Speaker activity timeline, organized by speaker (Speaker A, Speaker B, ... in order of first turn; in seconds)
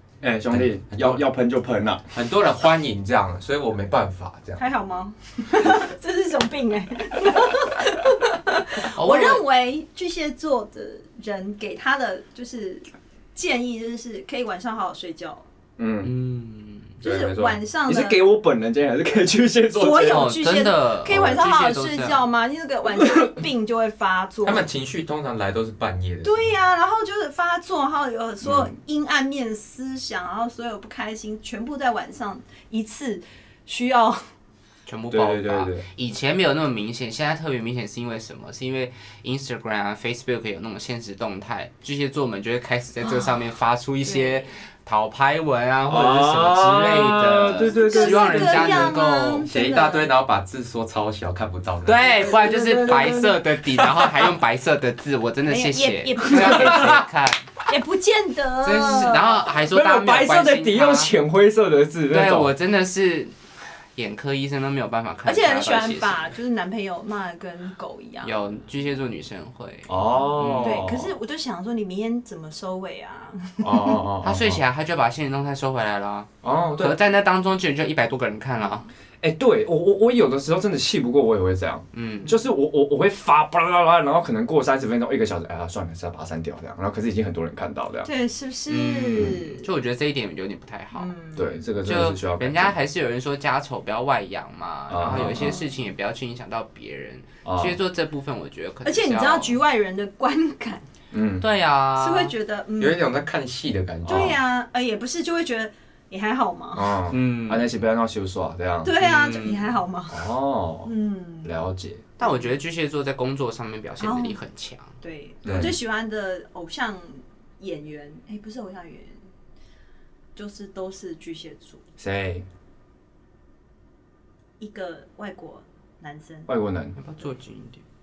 Speaker A: 0.2-2.1, 15.8-16.1, 17.0-20.3, 28.4-28.7, 35.1-35.9, 45.9-49.0, 52.2-53.4, 56.3-57.0, 59.7-62.5, 69.9-71.2, 73.6-74.6, 76.4-77.0, 79.2-88.1, 91.3-92.8, 94.9-95.6, 97.5-97.8, 101.1-101.5, 104.1-104.4, 106.8-108.9, 110.1-110.9, 111.4-112.0, 115.4-115.8, 122.0-122.5, 126.5-127.0
Speaker B: 0.5-1.2, 2.1-4.6, 24.4-26.5, 49.5-52.4, 102.8-104.4, 115.5-115.7
Speaker C: 4.6-15.4, 17.0-18.2, 19.7-24.7, 26.2-34.2, 44.0-44.6, 47.5-50.1, 55.5-57.0, 57.7-59.5, 65.2-68.3, 70.6-74.0, 88.0-89.7, 90.9-91.6, 95.2-95.6, 98.8-100.9, 102.0-103.2, 104.1-107.0, 108.8-110.3, 110.8-111.5, 112.2-112.6, 114.0-114.4, 115.0-119.2, 120.3-121.8, 124.6-126.5
Speaker D: 8.9-9.4, 16.0-16.9, 20.0-22.2, 34.9-49.5, 51.9-57.5, 58.6-61.1, 62.1-63.4, 64.0-66.3, 68.2-70.9, 74.2-78.9, 81.9-82.4, 88.7-91.2, 91.8-99.6, 101.4-102.3, 107.1-107.7, 109.0-109.8, 112.2-114.9, 127.0-127.8